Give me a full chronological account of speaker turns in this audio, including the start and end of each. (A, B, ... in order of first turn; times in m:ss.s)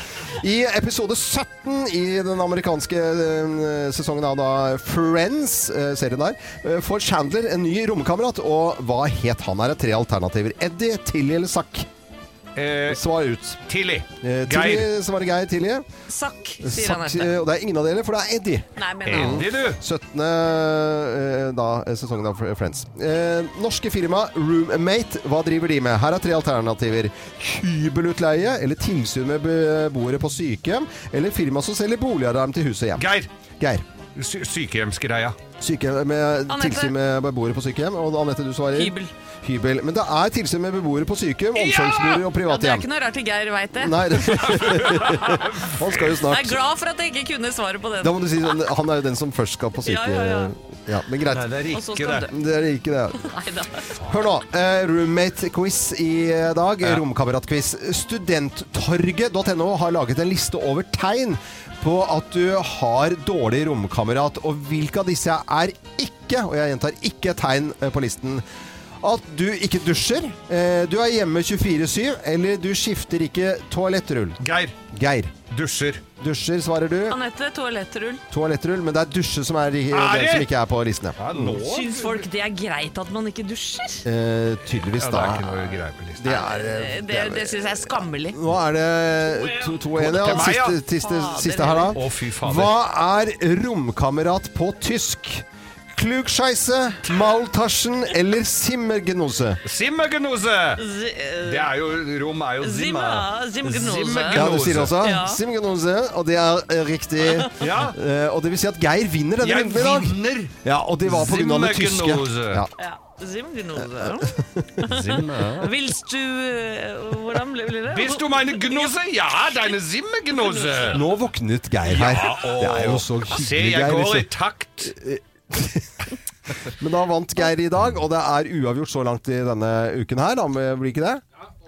0:00.4-0:11.9 A
0:12.6-0:13.0 B
0:12.9-0:13.6 A
0:13.7-0:14.9 B
0:14.2-0:15.8 A
0:16.1-0:17.4 C
0:16.6-0:33.1 A
0:18.8-0:19.4 C
0:19.0-0:19.8 B
0:33.0-0:33.3 B
0:34.2-0:35.4 B
0:35.6-0:42.9 A
0:36.5-0:37.0 C
0:38.7-0:39.1 C
0:41.6-0:42.2 B
0:42.3-0:44.4 C
0:43.8-0:46.6 A
0:44.4-0:46.2 B
0:46.3-0:48.5 C
0:48.0-0:51.6 A
0:49.8-0:50.5 C
0:51.3-0:52.3 B
0:51.7-0:52.3 C
0:52.2-0:53.3 A
0:53.2-0:53.8 C
0:54.1-1:08.4 A
1:09.0-1:15.4 A
1:14.4-1:14.7 B
1:15.5-1:16.0 B
1:16.2-1:17.2 A
1:17.1-1:18.2 C
1:18.3-1:21.6 A
1:19.9-1:20.5 B
1:21.2-1:22.3 B
1:21.6-1:24.1 C
1:24.0-1:39.6 A
1:24.8-1:26.3 B
1:26.2-1:28.4 C
1:29.9-1:30.8 B
1:30.9-1:32.0 C
1:31.9-1:32.7 B
1:39.6-1:40.8 B
1:40.8-1:41.7 C
1:41.4-1:45.0 B
1:42.6-1:44.5 C
1:44.3-1:52.7 A
1:45.0-1:45.4 C
1:47.6-1:48.0 B
1:49.4-1:52.7 B
1:52.8-1:54.3 C
1:53.7-1:54.9 A
1:54.8-1:58.9 C
1:54.9-1:55.7 B
1:57.9-2:01.0 B
2:00.4-2:01.0 C
2:00.9-2:04.3 A
2:01.8-2:04.9 B
2:04.8-2:06.0 A
2:06.6-2:11.2 A